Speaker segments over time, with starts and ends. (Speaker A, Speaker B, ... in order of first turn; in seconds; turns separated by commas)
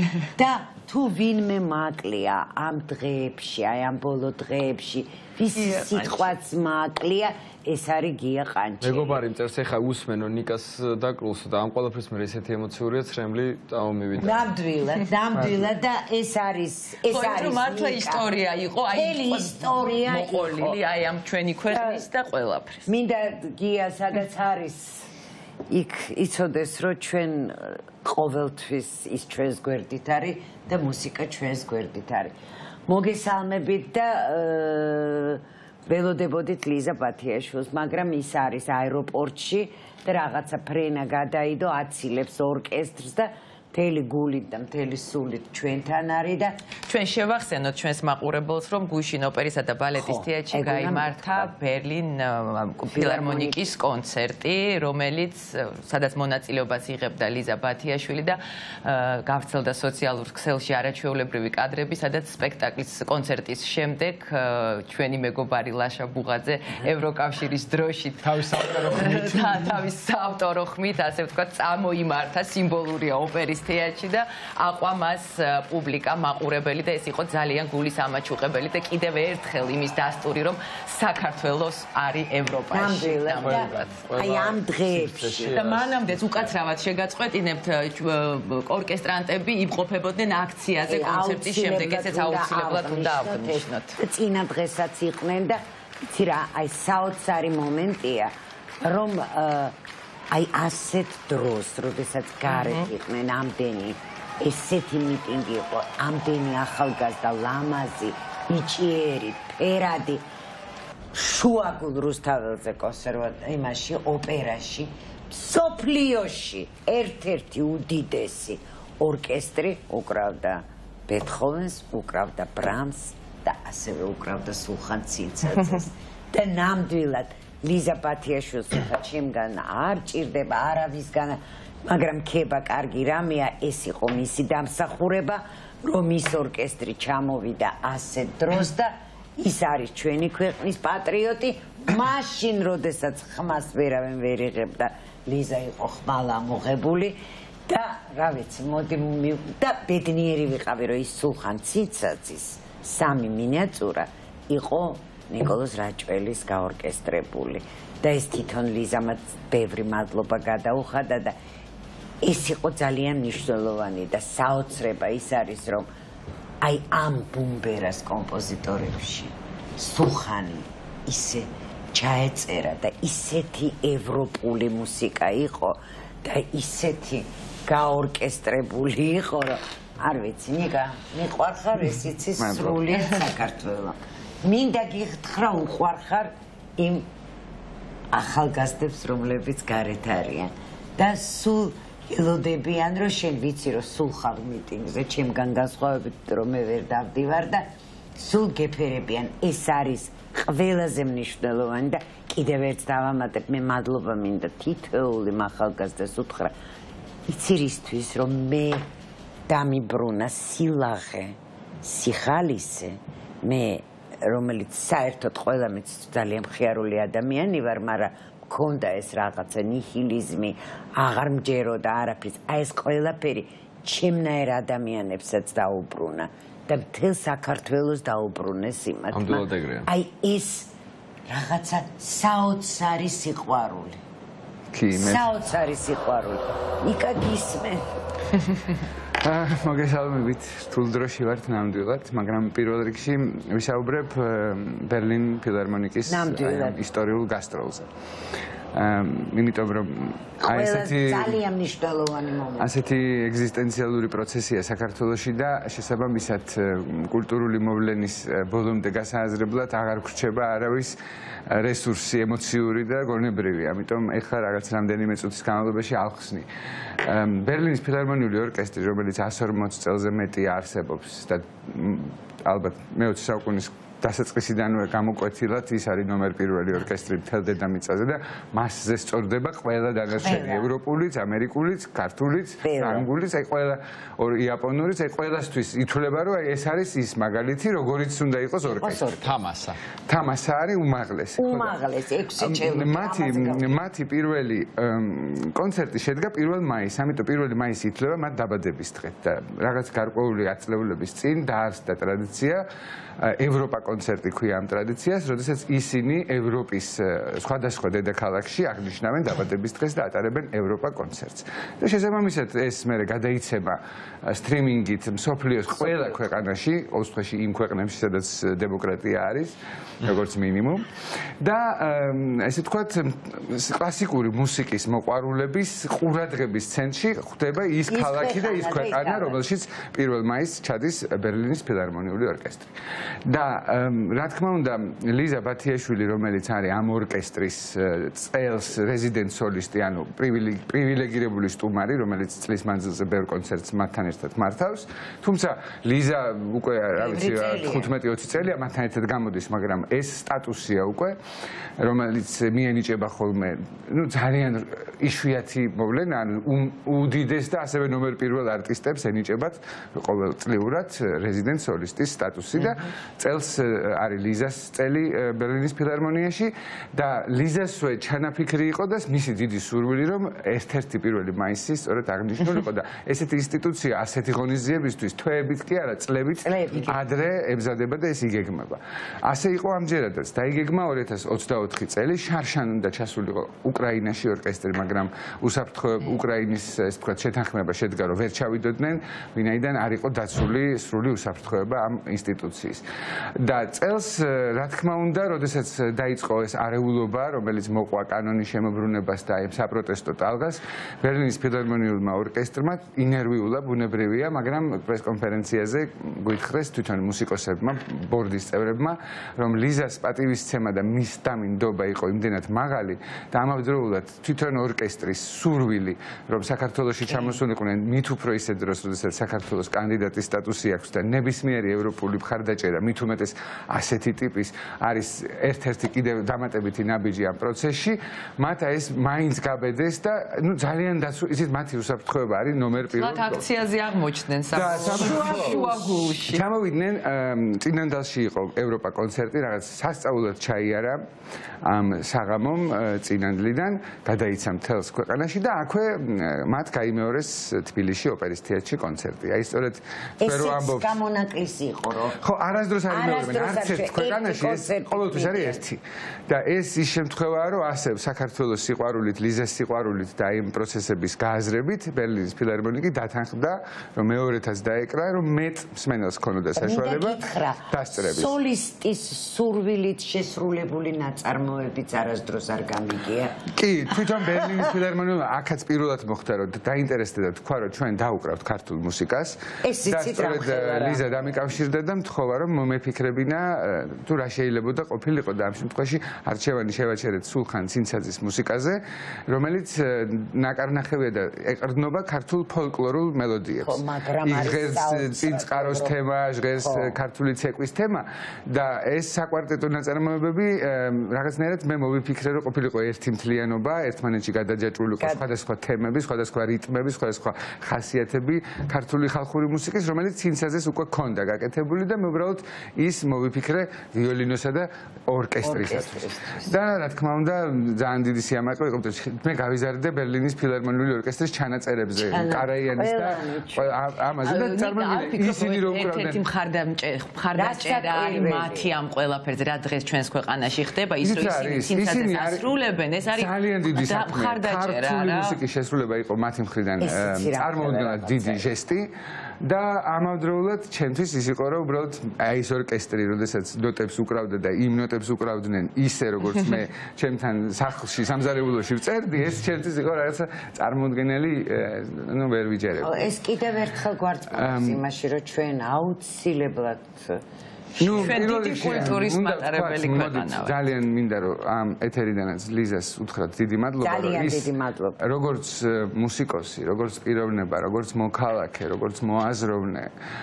Speaker A: 0.3-9.2, Speaker B: 5.5-6.4, Speaker C: 8.8-14.5, Speaker A: 14.2-18.2, Speaker B: 17.0-22.9, Speaker A: 18.9-20.8, Speaker A: 21.7-22.0, Speaker A: 22.9-25.1, Speaker A: 25.7-32.3, Speaker A: 32.9-46.6, Speaker B: 46.9-83.9, Speaker A: 50.0-51.5, Speaker A: 52.8-53.7, Speaker C: 68.4-69.4, Speaker A: 82.7-85.5, Speaker C: 83.4-86.5, Speaker B: 85.5-94.0, Speaker A: 90.9-99.8, Speaker A: 100.3-110.2, Speaker B: 102.5-102.9, Speaker A: 111.1-161.3, Speaker A: 162.2-165.9, Speaker A: 166.6-187.1, Speaker D: 182.4-182.9, Speaker A: 188.1-206.5, Speaker A: 207.3-208.8, Speaker A: 209.5-230.7, Speaker C: 229.1-229.9, Speaker A: 231.3-234.0, Speaker D: 234.7-235.2, Speaker A: 234.9-237.9, Speaker D: 239.2-247.9, Speaker A: 246.1-246.8, Speaker D: 248.7-251.4, Speaker A: 250.4-252.7, Speaker D: 252.6-260.9, Speaker D: 261.5-266.5, Speaker D: 267.0-289.1, Speaker A: 280.1-280.7, Speaker A: 282.6-283.1, Speaker A: 288.6-289.4, Speaker C: 289.2-289.8, Speaker D: 290.1-291.8, Speaker A: 291.4-293.7, Speaker D: 292.4-302.6, Speaker D: 303.2-320.9, Speaker D: 321.4-332.7, Speaker A: 327.9-329.4, Speaker D: 333.2-351.2, Speaker A: 347.0-347.9, Speaker D: 351.8-392.8, Speaker A: 376.4-377.0, Speaker D: 393.4-433.5, Speaker A: 417.1-417.4, Speaker B: 432.9-436.4, Speaker D: 434.5-441.0, Speaker A: 434.6-435.7, Speaker D: 441.6-451.0, Speaker A: 450.2-452.2, Speaker D: 452.2-468.4, Speaker A: 452.9-455.6, Speaker A: 466.6-473.3, Speaker D: 473.5-526.2, Speaker A: 479.6-481.4, Speaker A: 493.6-495.9, Speaker A: 496.6-497.0, Speaker A: 515.4-516.5, Speaker A: 522.0-523.7, Speaker B: 524.2-535.4, Speaker A: 527.4-528.7, Speaker D: 531.0-532.5, Speaker D: 533.1-538.9, Speaker A: 536.8-538.5, Speaker D: 539.4-553.0, Speaker A: 552.8-557.2, Speaker D: 554.3-554.8, Speaker D: 557.8-569.9, Speaker B: 557.9-560.5, Speaker A: 563.8-565.0